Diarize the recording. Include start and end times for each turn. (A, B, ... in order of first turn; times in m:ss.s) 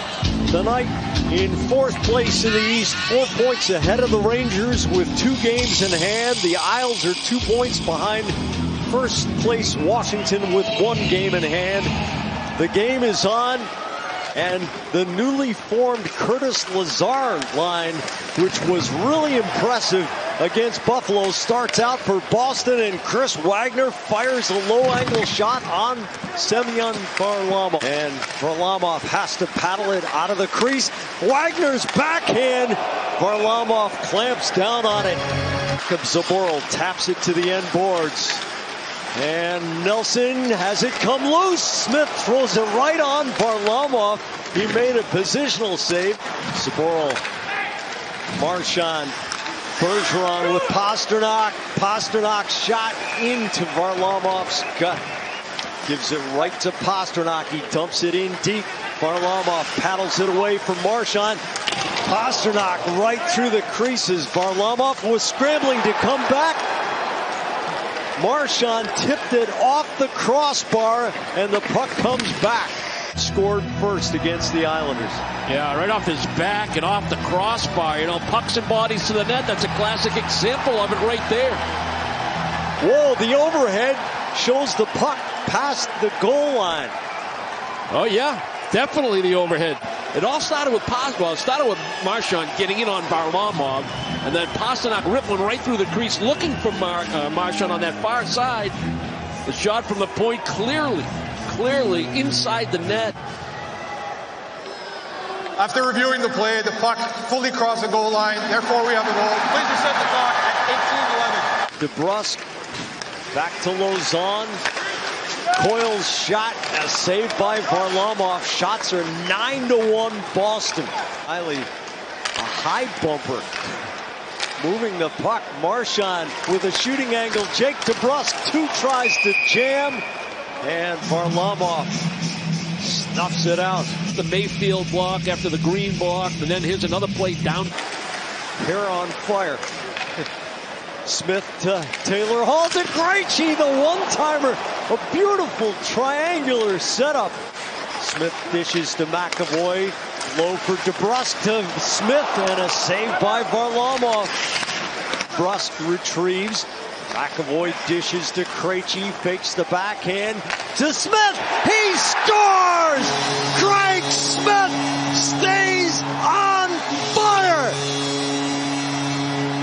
0:00.5-0:11.9 A
0:12.5-0:13.7 A
0:14.3-0:35.2 A
0:35.8-0:38.4 A
0:39.1-0:47.2 A
0:48.3-0:49.1 A
0:49.8-0:55.0 A
0:55.8-1:01.4 A
1:02.0-1:06.6 A
1:08.2-1:15.2 A
1:15.4-1:21.6 B
1:22.8-1:26.9 A
1:27.9-1:38.7 B
1:39.4-1:43.2 B
1:45.6-1:51.5 C
1:51.8-1:52.4 A
1:53.3-1:54.6 A
1:55.5-2:01.7 A
2:02.4-2:03.8 A
2:04.6-2:10.0 A
2:10.6-2:12.1 A
2:12.8-2:13.9 A
2:14.1-2:17.7 B
2:18.6-2:19.6 A
2:21.0-2:27.4 A
2:28.0-2:34.4 A
2:35.3-2:47.8 A